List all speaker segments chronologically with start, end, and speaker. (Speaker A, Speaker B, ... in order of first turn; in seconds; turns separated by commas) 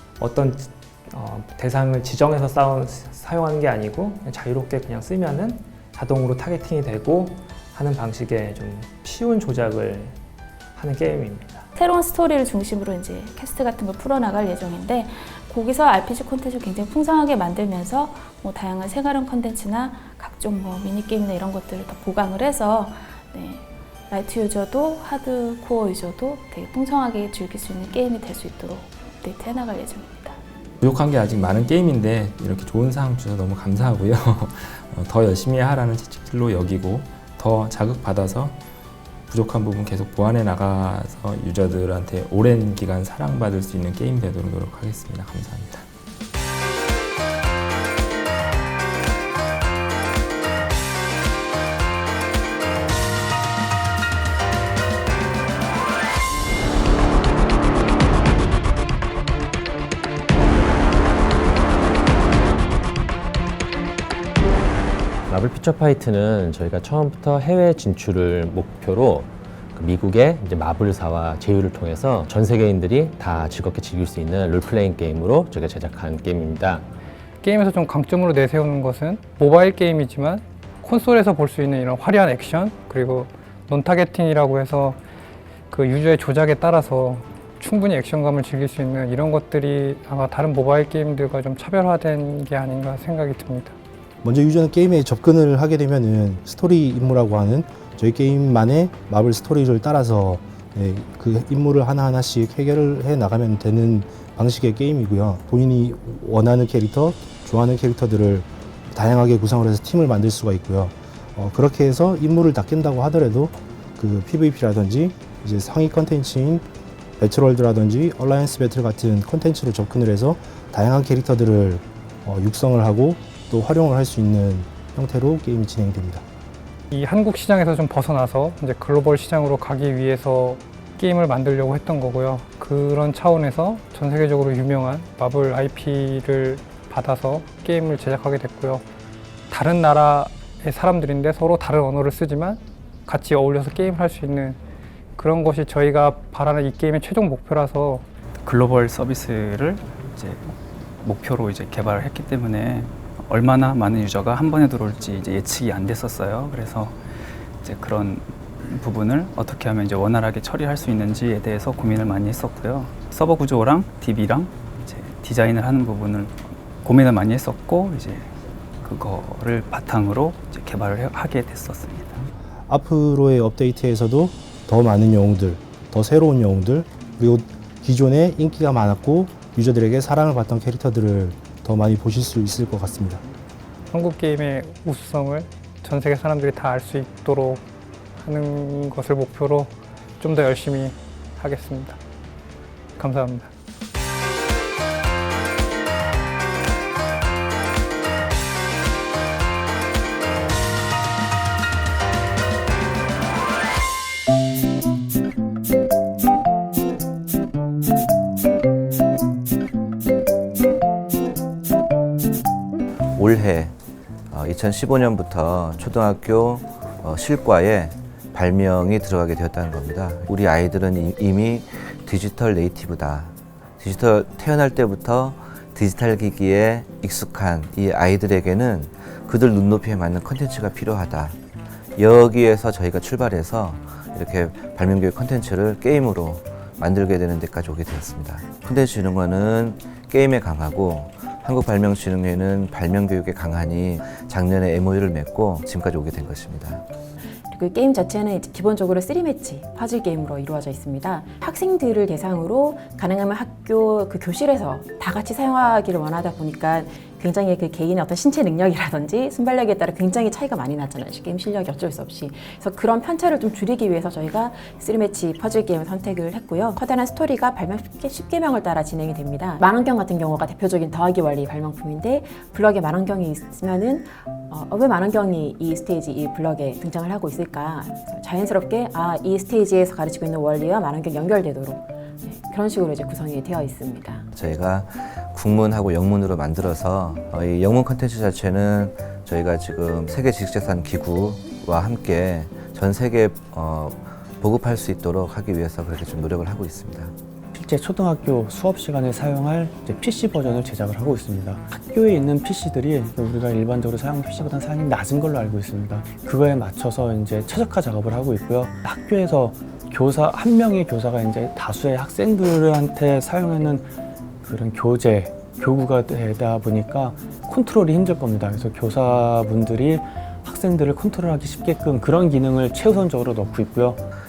Speaker A: 0.2-10.2, Speaker A: 10.8-11.6, Speaker B: 11.7-30.4, Speaker C: 30.8-38.6, Speaker C: 39.3-45.9, Speaker D: 65.3-76.8, Speaker E: 77.4-85.0, Speaker E: 85.7-93.7, Speaker F: 94.2-116.6, Speaker F: 117.2-126.2, Speaker E: 126.9-138.8, Speaker E: 139.5-144.6, Speaker E: 145.2-148.0, Speaker G: 148.4-157.0, Speaker G: 157.6-172.2, Speaker F: 172.7-183.2, Speaker E: 183.9-187.6, Speaker E: 188.2-192.0, Speaker E: 193.0-193.5, Speaker H: 213.1-213.7, Speaker H: 214.3-231.4, Speaker H: 232.0-246.8, Speaker I: 247.5-284.3, Speaker H: 284.3-297.1, Speaker J: 297.5-313.9, Speaker J: 314.4-324.0